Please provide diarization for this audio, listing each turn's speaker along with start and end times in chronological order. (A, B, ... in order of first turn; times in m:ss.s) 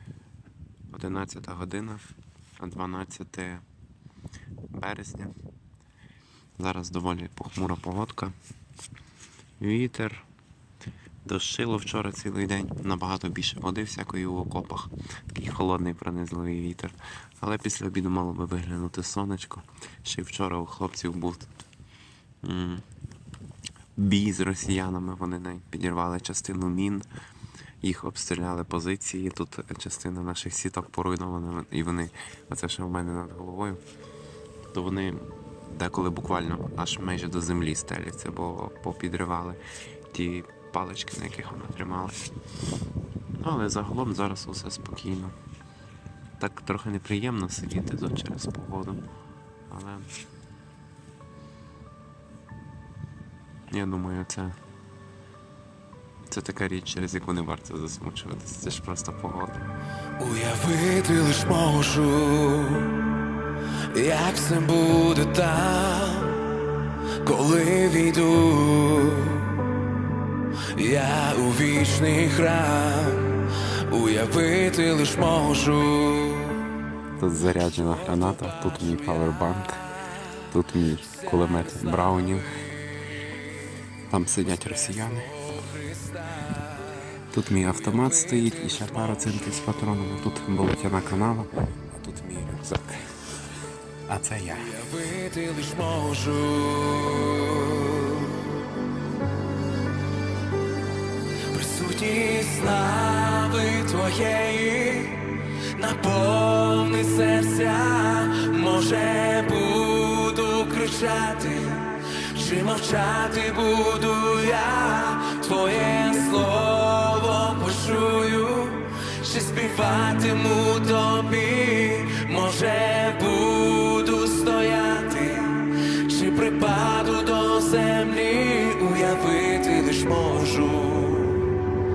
0:00.9-0:02.0 A
0:02.6-0:03.6 A
0:04.7-0:05.3 A
0:06.6-0:08.3 A
0:09.6-0:10.2 A
0:11.2-0:21.5 A
0:22.4-0:22.8 A
0:24.0-0:27.0 A
0:27.8-0:33.8 A
0:34.7-0:42.2 A
0:43.4-0:45.3 A
0:46.4-0:49.0 A
0:49.7-0:50.1 A
0:53.7-0:54.6 A
0:56.3-0:59.6 A
1:00.2-1:03.1 B
1:03.9-1:06.6 B
1:07.2-1:09.6 B
1:10.7-1:16.7 B
1:17.2-1:22.5 A
1:24.1-1:25.3 A
1:25.4-1:27.2 B
1:27.3-1:33.1 A
1:27.8-1:29.3 B
1:34.1-1:34.8 A
1:34.6-1:38.6 B
1:41.5-2:11.7 B